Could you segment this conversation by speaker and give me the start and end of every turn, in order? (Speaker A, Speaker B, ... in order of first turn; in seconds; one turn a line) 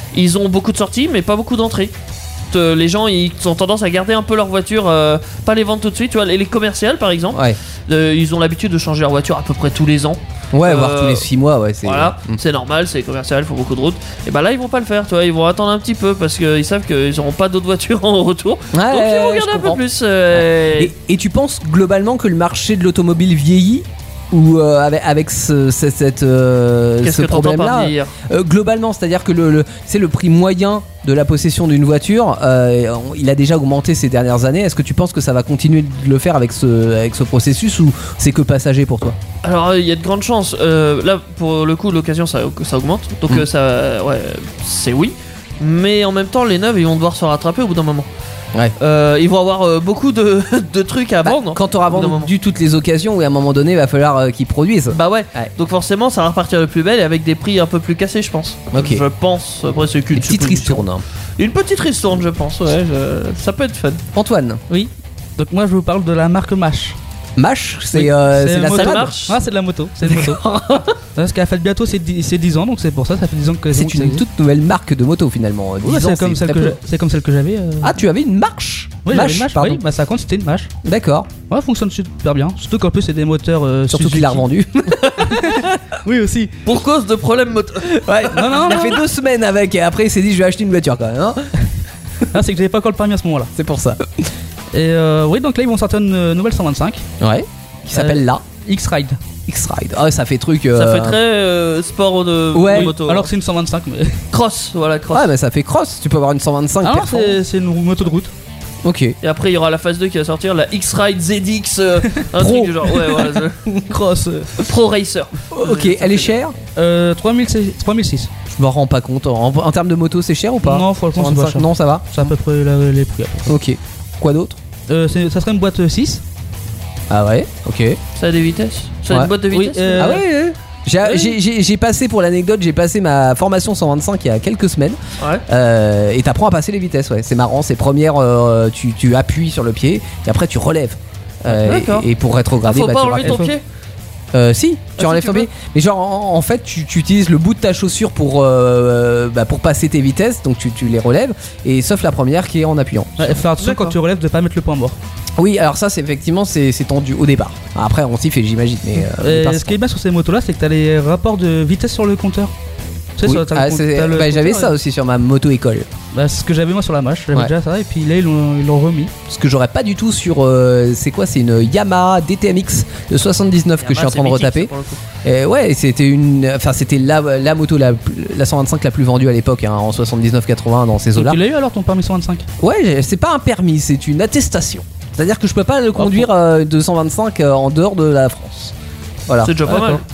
Speaker A: 0.1-1.9
Speaker A: 2.5-11.2
Speaker B: 7.3-7.6
Speaker B: 10.5-12.4
Speaker A: 11.8-20.9
Speaker B: 18.7-19.8
Speaker B: 20.8-39.2
Speaker A: 27.0-28.1
Speaker A: 39.4-48.1
Speaker A: 48.8-52.3
Speaker B: 51.2-55.5
Speaker A: 54.9-60.8
Speaker B: 58.7-59.0
Speaker B: 60.1-61.0
Speaker A: 61.4-64.0
Speaker B: 64.1-64.6
Speaker C: 64.7-67.0
Speaker B: 67.4-69.2
Speaker C: 67.9-70.4
Speaker A: 68.7-69.4
Speaker B: 70.0-71.0
Speaker C: 71.2-74.2
Speaker B: 73.7-76.8
Speaker C: 75.8-78.0
Speaker B: 77.8-79.8
Speaker C: 79.0-80.7
Speaker B: 80.8-81.3
Speaker C: 81.5-84.4
Speaker B: 83.9-85.8
Speaker C: 85.2-86.5
Speaker A: 86.6-88.3
Speaker B: 87.9-91.5
Speaker C: 88.3-89.0
Speaker C: 92.3-93.5
Speaker B: 93.5-94.3
Speaker C: 94.7-97.0
Speaker B: 97.2-98.4
Speaker C: 97.9-99.2
Speaker B: 99.5-101.2
Speaker A: 100.7-103.3
Speaker B: 102.5-102.9
Speaker C: 102.7-104.2
Speaker A: 104.3-105.3
Speaker B: 105.1-107.4
Speaker C: 106.8-108.3
Speaker B: 108.8-109.2
Speaker A: 109.2-113.6
Speaker B: 112.3-113.8
Speaker C: 113.8-114.6
Speaker A: 114.6-116.4
Speaker B: 115.5-116.5
Speaker C: 116.8-118.3
Speaker B: 118.5-122.3
Speaker C: 120.6-123.5
Speaker B: 123.5-124.6
Speaker C: 124.9-126.2
Speaker B: 127.1-128.0
Speaker A: 128.2-130.2
Speaker C: 129.5-130.2
Speaker B: 130.0-143.5
Speaker C: 131.0-131.3
Speaker A: 135.2-135.4
Speaker A: 141.5-142.1
Speaker A: 142.6-143.6
Speaker C: 143.2-143.5
Speaker B: 144.3-153.4
Speaker A: 145.0-145.5
Speaker C: 153.2-154.9
Speaker A: 153.6-153.9
Speaker B: 155.4-159.8
Speaker C: 159.2-162.5
Speaker C: 163.2-164.7
Speaker B: 163.2-165.9
Speaker C: 166.1-169.1
Speaker B: 169.3-174.7
Speaker A: 173.8-175.0
Speaker B: 175.2-181.4
Speaker C: 181.1-182.4
Speaker B: 182.6-188.7
Speaker B: 189.3-189.8
Speaker A: 189.4-190.0
Speaker C: 189.7-190.0